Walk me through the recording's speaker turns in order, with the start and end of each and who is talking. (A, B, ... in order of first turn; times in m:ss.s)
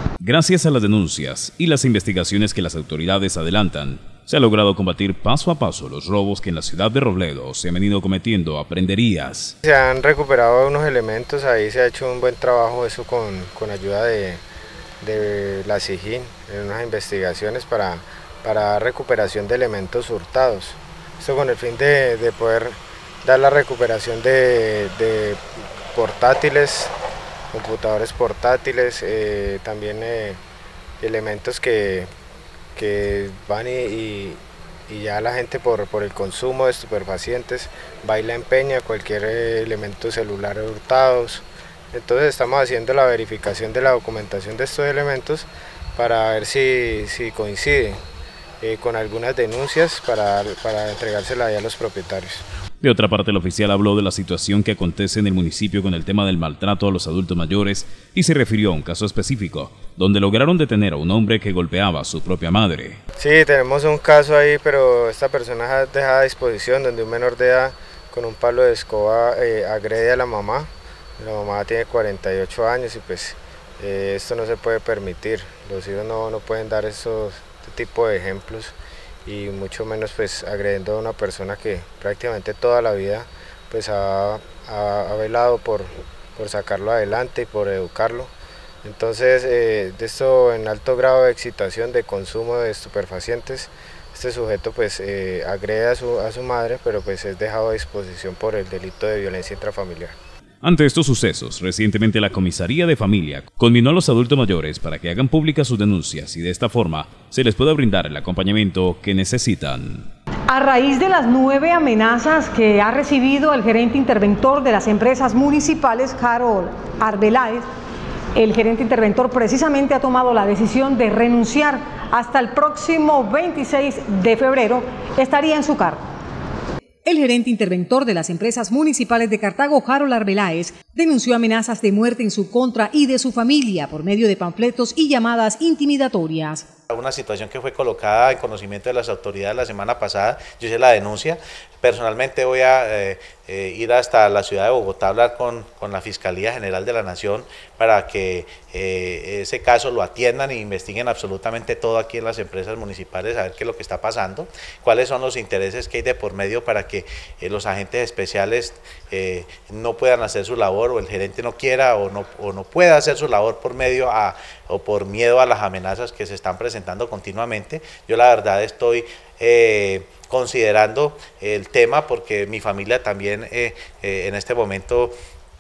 0:00.2-0:09.5 A
0:09.6-0:14.4 B
0:15.0-0:26.9 B
0:27.5-0:30.4 B
0:31.0-0:32.1 B
0:32.8-0:48.0 B
0:48.6-0:52.4 B
0:52.8-1:03.0 A
1:03.2-1:18.7 B
1:19.2-1:28.3 B
1:28.8-1:40.2 B
1:40.6-1:50.1 A
1:50.5-1:57.6 C
1:58.3-2:06.0 C
2:07.0-2:16.7 C
2:16.9-2:55.1 D